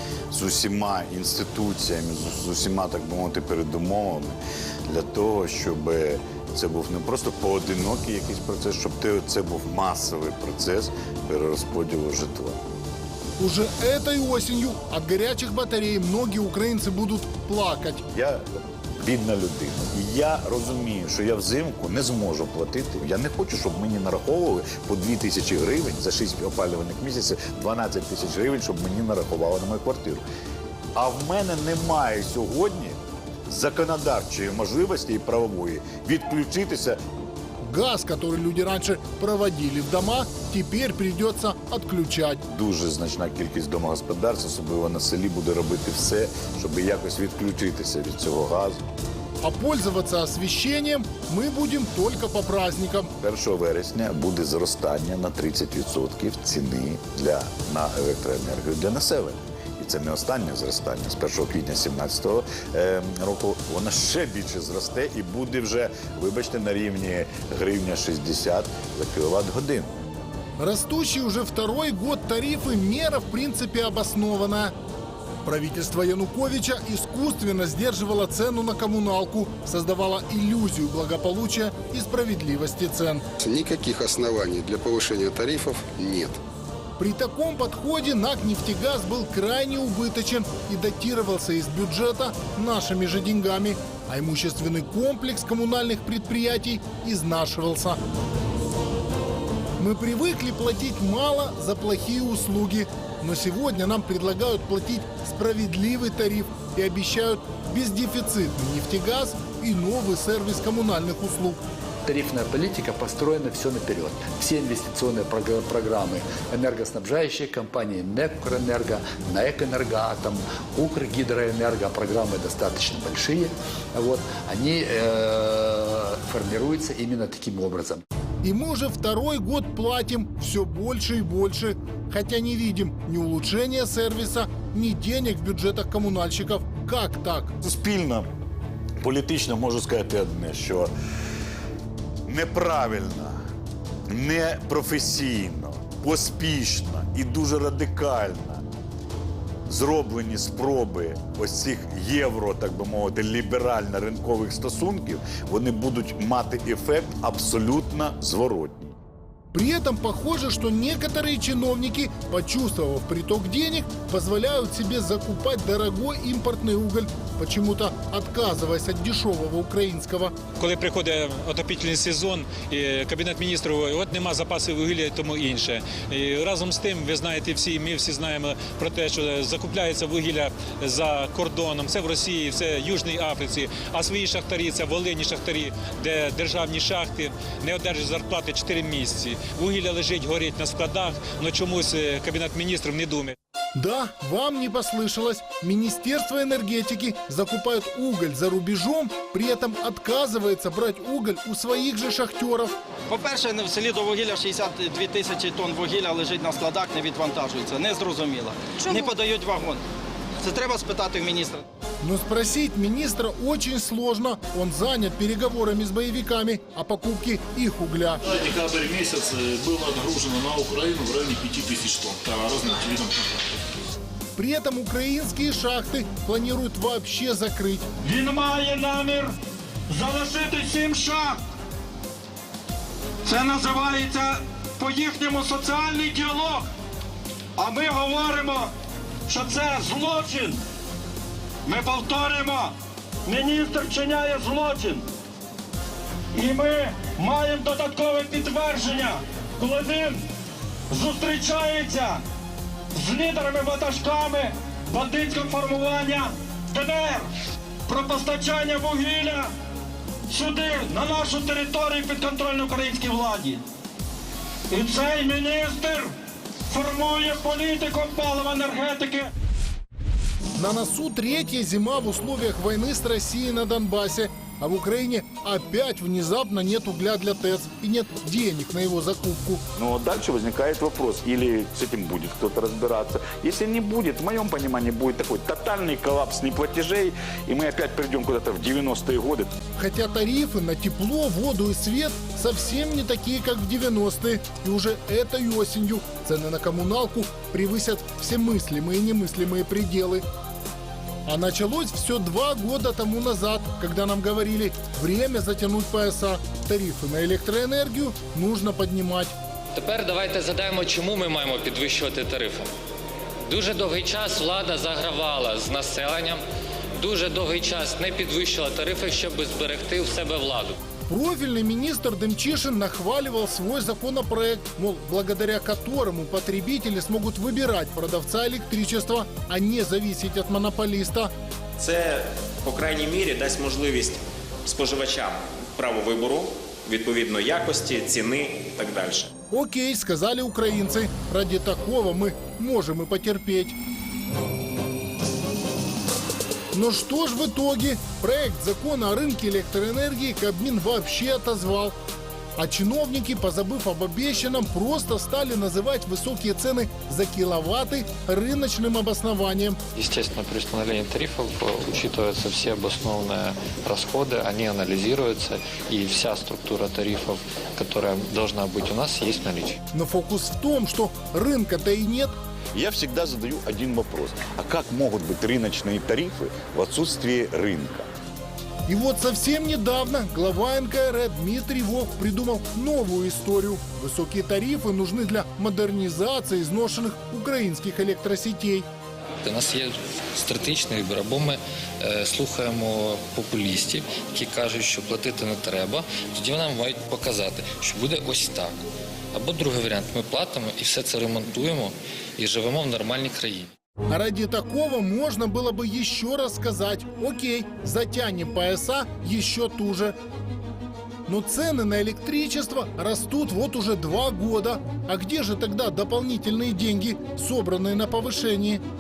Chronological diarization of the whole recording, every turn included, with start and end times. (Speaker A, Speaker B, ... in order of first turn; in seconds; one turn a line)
Speaker A: 0.3-4.3
Speaker A: 4.9-12.6
Speaker B: 13.4-18.0
Speaker A: 18.1-30.2
Speaker A: 31.0-37.0
Speaker B: 37.6-42.4
Speaker A: 42.5-48.8
Speaker B: 49.4-53.1
Speaker A: 53.2-69.9
Speaker B: 70.6-74.7
Speaker B: 75.4-83.2
Speaker C: 83.4-86.4
Speaker B: 87.0-98.0
Speaker B: 99.8-111.6
Speaker D: 112.0-128.0
Speaker B: 128.4-137.6
Speaker A: 137.6-138.3
Speaker A: 139.0-140.9
Speaker A: 142.2-143.4
Speaker A: 144.1-148.6
Speaker A: 149.7-159.0
Speaker B: 159.5-170.3
Speaker E: 170.6-193.3
Speaker B: 193.8-202.8
Speaker F: 203.1-209.8
Speaker F: 210.4-211.6
Speaker B: 212.0-218.2
Speaker G: 218.2-223.4
Speaker B: 224.3-227.8
Speaker H: 228.0-229.3
Speaker H: 229.9-231.4
Speaker H: 233.2-236.7
Speaker H: 237.6-238.7
Speaker H: 239.3-240.6
Speaker H: 241.7-242.8
Speaker H: 243.3-245.0
Speaker H: 246.3-250.2
Speaker H: 250.9-252.2
Speaker H: 252.9-257.3
Speaker H: 257.9-259.5
Speaker H: 260.3-263.6
Speaker H: 264.7-266.1
Speaker H: 266.7-269.3
Speaker B: 270.6-279.6
Speaker A: 279.8-289.5
Speaker B: 289.8-300.2
Speaker B: 301.3-309.3
Speaker I: 309.7-312.7
Speaker I: 313.4-316.4
Speaker I: 316.9-320.8
Speaker B: 321.1-331.3
Speaker J: 331.8-339.3
Speaker B: 339.5-343.8
Speaker B: 346.7-351.9
Speaker B: 352.6-359.8
Speaker I: 360.0-369.8
Speaker B: 369.9-372.3
Speaker A: 372.7-378.1
Speaker B: 378.9-388.9
Speaker I: 389.4-398.8
Speaker I: 399.3-403.7
Speaker B: 404.1-410.1
Speaker B: 411.3-418.8